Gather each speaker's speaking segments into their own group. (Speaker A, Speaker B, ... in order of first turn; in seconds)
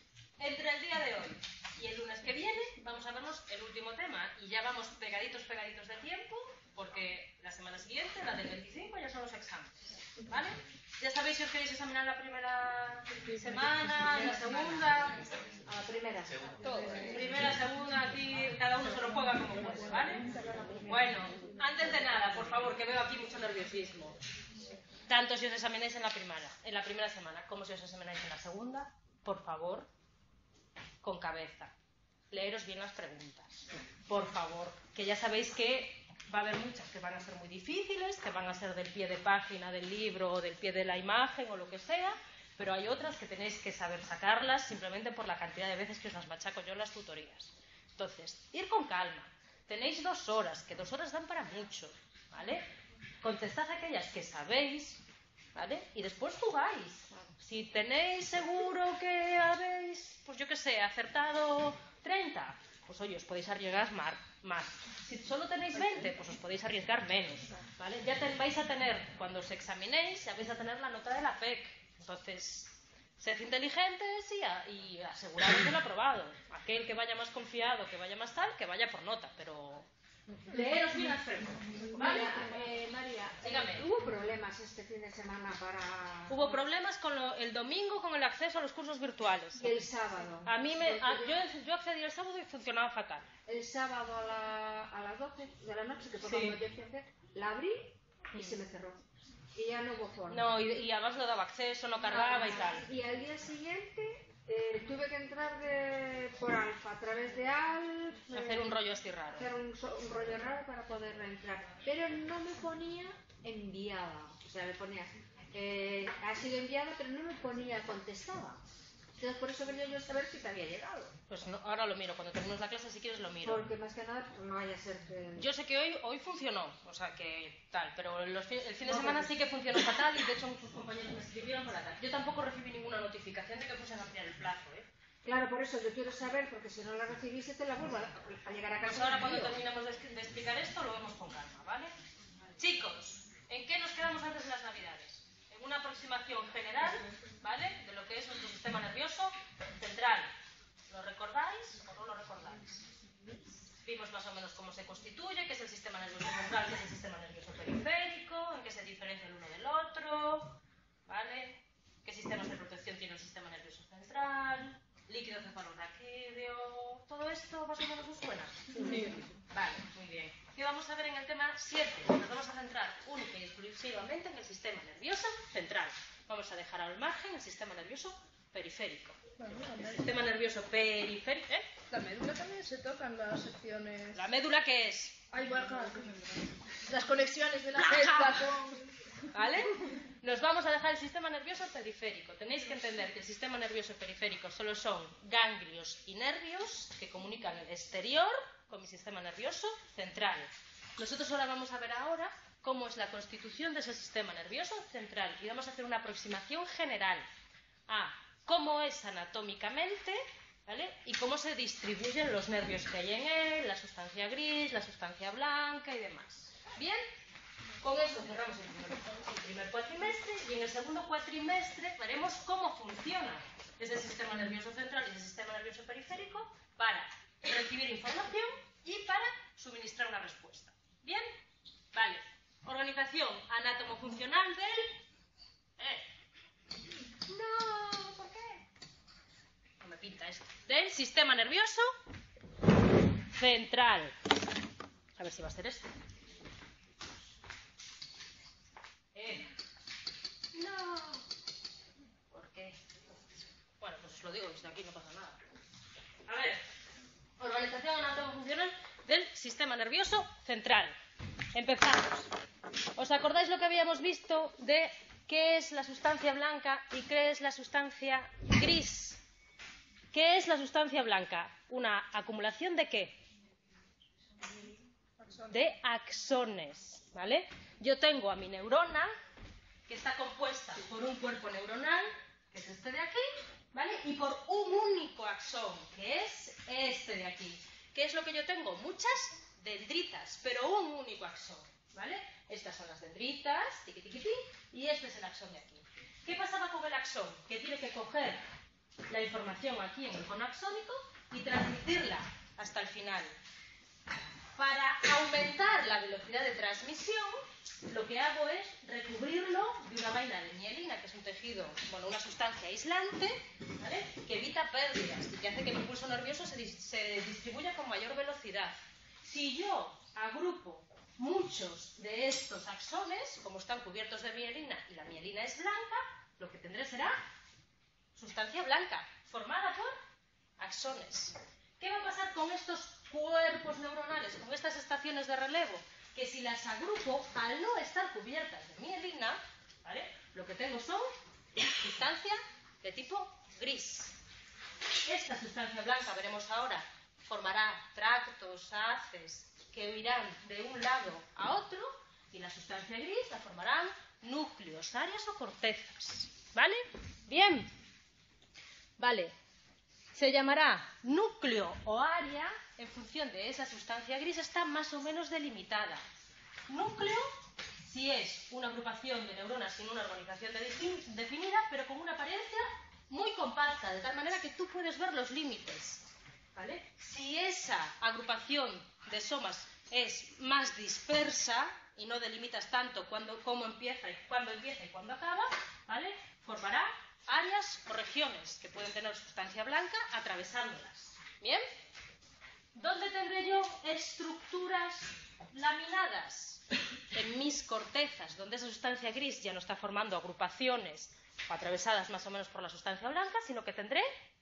Speaker A: 0.4-15.2, 16.6-20.2, 20.9-24.2, 25.1-29.9, 31.0-31.7, 32.3-52.7, 53.2-55.0, 55.5-79.9, 80.5-82.4, 83.4-83.8, 86.3-89.7, 90.4-93.3, 96.2-96.6, 98.3-98.6, 100.3-102.8, 108.3-109.5, 121.3-123.6, 125.3-134.9, 138.9-141.9, 142.6-150.3, 150.9-152.8, 153.8-179.2, 179.8-181.7, 184.1-185.2, 187.7-188.5, 189.3-207.2, 207.9-217.0, 217.8-231.3, 231.9-235.0, 235.8-236.1, 237.2-238.6, 239.8-241.9, 243.3-244.2, 245.2-245.9, 249.1-249.5, 250.5-251.2, 252.3-253.2, 253.8-255.4, 256.3-256.6, 257.4-260.9, 261.5-262.3, 262.9-269.2, 270.1-273.2, 275.5-279.1, 279.9-298.4, 299.1-303.3, 304.6-327.2, 328.1-329.9, 330.6-344.2, 345.0-357.7, 359.0-359.3, 360.1-366.0, 366.7-367.3, 367.9-391.6, 392.7-404.1
Speaker B: 13.9-17.1, 80.5-81.1, 81.8-86.6, 89.5-91.4, 93.5-100.5, 102.0-108.8, 109.3-118.6, 119.2-121.2, 123.4-125.5, 128.9-129.3, 135.2-139.6
Speaker C: 20.1-20.9, 168.7-169.2, 179.4-180.2, 181.9-184.2, 185.3-189.2, 275.2-275.5